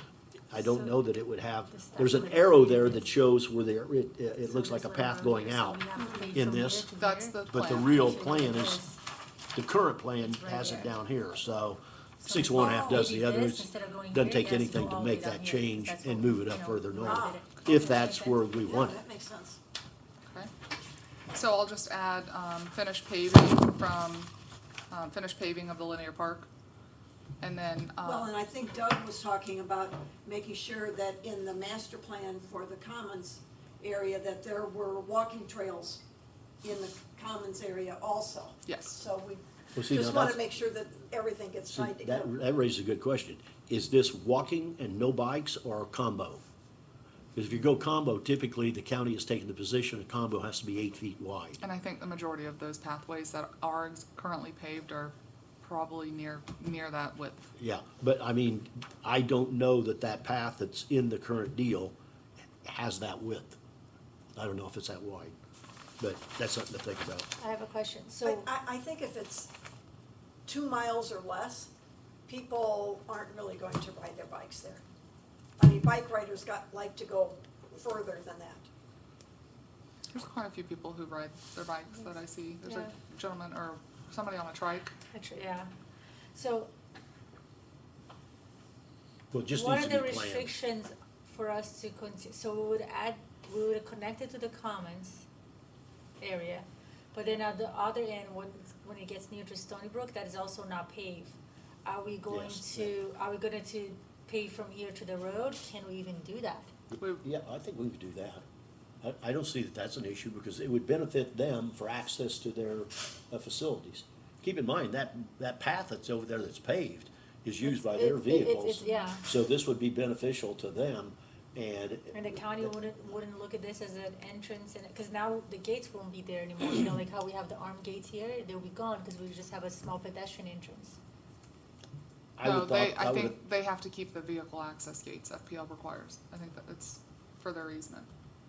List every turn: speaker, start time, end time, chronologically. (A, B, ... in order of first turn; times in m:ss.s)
0:00.5-0:06.9 A
0:00.5-0:00.9 B
0:01.7-0:03.1 B
0:04.4-0:09.0 B
0:06.0-0:06.3 C
0:07.0-0:08.0 D
0:07.5-0:08.8 A
0:09.5-0:19.0 A
0:10.2-0:11.0 B
0:12.2-0:18.6 B
0:12.6-0:13.1 C
0:17.0-0:17.4 C
0:18.6-0:19.6 C
0:21.3-0:24.3 D
0:24.9-0:26.5 D
0:27.4-0:28.3 D
0:28.0-0:36.0 C
0:36.6-0:42.3 C
0:38.6-0:39.0 D
0:39.7-0:40.4 A
0:41.7-0:46.4 A
0:47.3-0:51.6 A
0:51.6-0:57.5 D
0:57.6-1:01.9 A
1:02.6-1:03.6 A
1:04.4-1:05.3 A
1:06.0-1:07.3 A
1:07.4-1:08.5 B
1:08.2-1:09.5 C
1:10.4-1:11.7 C
1:12.3-1:14.8 C
1:15.6-1:18.7 C
1:20.1-1:24.9 D
1:22.6-1:22.9 B
1:25.1-1:25.7 B
1:26.3-1:26.7 B
1:29.3-1:30.5 A
1:29.5-1:35.2 B
1:36.2-1:46.7 B
1:42.3-1:42.9 A
1:46.9-1:48.4 A
1:49.0-2:02.7 A
1:57.6-1:59.2 B
2:02.1-2:11.0 B
2:12.4-2:13.4 A
2:12.4-2:18.1 D